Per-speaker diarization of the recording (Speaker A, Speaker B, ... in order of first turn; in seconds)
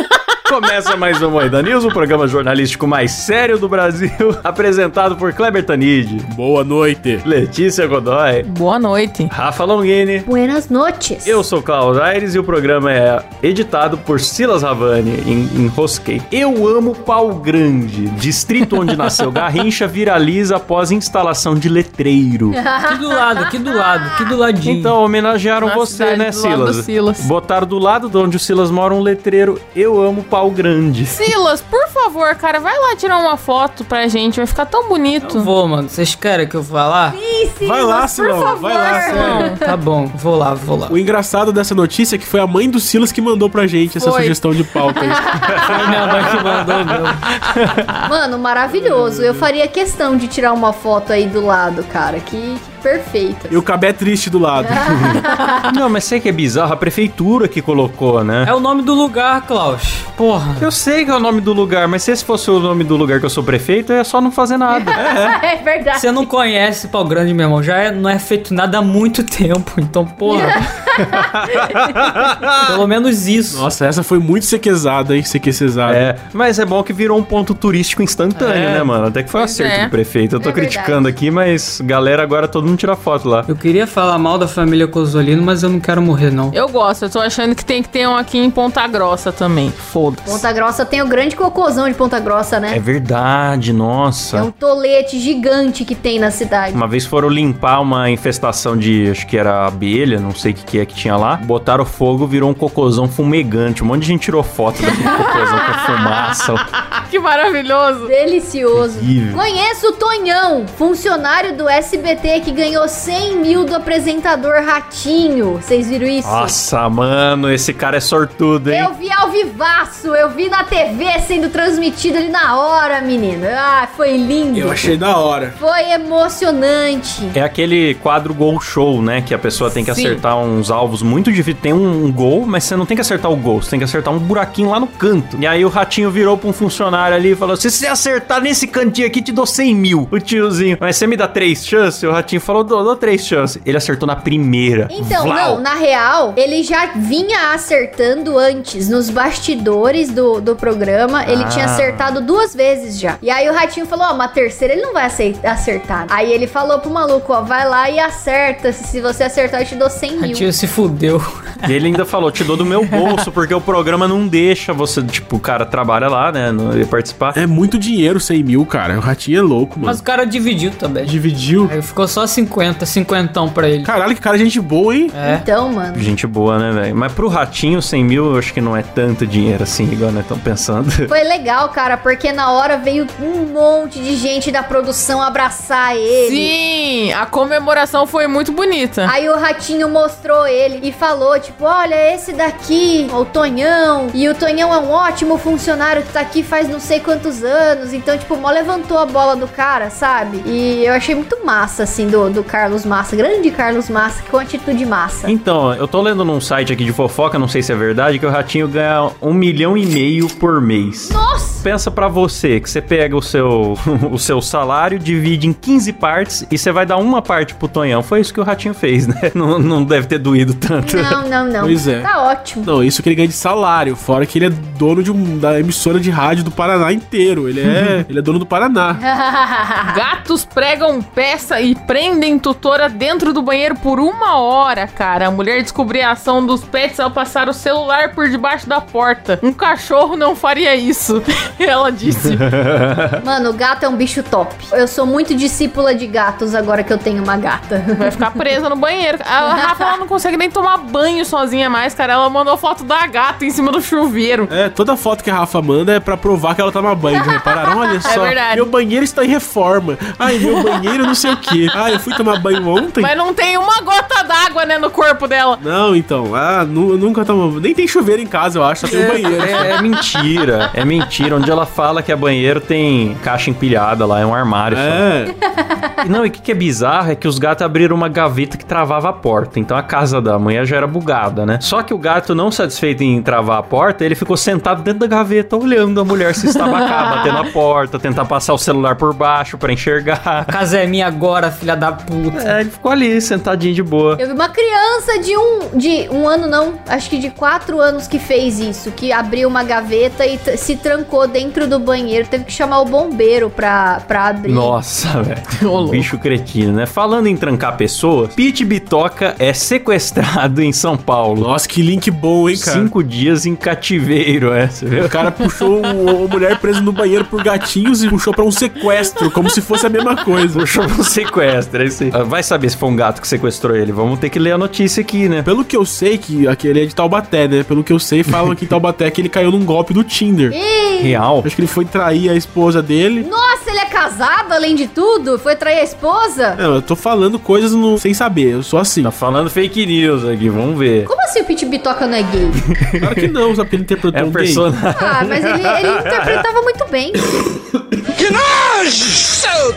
Speaker A: 0.5-6.3, 7.2-8.5, 9.3-10.3, 11.2-22.6, 24.6-31.2, 45.4-47.8, 54.9-58.5, 60.6-65.2, 71.0-72.8, 75.9-83.5, 92.7-94.5, 96.7-106.7, 108.8-109.4, 116.2-118.9, 127.3-145.6, 151.3-152.2, 161.7-167.4, 175.9-181.1, 205.3-221.2, 242.5-243.2, 269.5-275.1, 276.0-290.6, 292.3-294.2, 304.4-311.5, 312.5-315.2, 320.5-325.5, 331.0-331.5, 339.0-341.1, 342.6-343.3, 344.1-346.4
Speaker B: 6.3-7.2, 37.6-39.5, 40.9-45.6, 48.7-49.5, 53.5-55.2, 73.5-76.0, 124.5-125.6, 167.3-170.0, 171.0-171.8, 173.8-175.1, 221.6-222.1, 222.6-229.0, 254.5-263.1, 265.6-269.7, 274.7-275.3, 311.4-312.9, 315.0-320.6, 325.4-330.6, 331.4-333.3, 336.6-339.1, 343.0-344.6
Speaker C: 8.4-9.3, 25.6-27.3, 31.1-35.5, 38.8-39.6, 44.0-44.4, 79.4-79.9, 86.5-90.5, 107.1-108.1, 186.2-189.1, 229.9-242.5, 248.0-254.5, 258.1-258.7, 260.5-261.0, 261.7-262.0, 262.8-265.6, 286.8-287.4, 305.6-306.1
Speaker D: 10.3-11.4, 22.5-24.4, 37.1-39.6, 44.9-46.0, 48.1-53.6, 54.6-55.7, 64.7-66.3, 70.3-71.9, 80.4-81.2, 90.3-92.8, 94.3-96.8, 105.1-105.7, 108.0-116.6, 118.7-125.0, 125.6-127.4, 144.9-160.5, 175.2-176.1, 181.1-186.5, 189.1-205.3, 211.1-211.7, 220.8-222.7, 229.0-230.0, 243.2-248.2, 257.2-258.1, 275.4-275.9, 294.2-304.8, 330.5-331.2, 333.2-336.6, 341.1-342.6, 345.0-347.2
Speaker E: 22.9-25.0, 35.2-37.2, 39.5-41.0, 45.7-47.3, 58.4-60.7, 65.9-70.7, 72.6-73.7, 78.3-78.9, 83.5-86.5, 129.7-130.2, 160.2-162.0, 162.5-163.3, 169.8-173.9, 175.1-175.4, 268.9-269.9, 290.5-292.5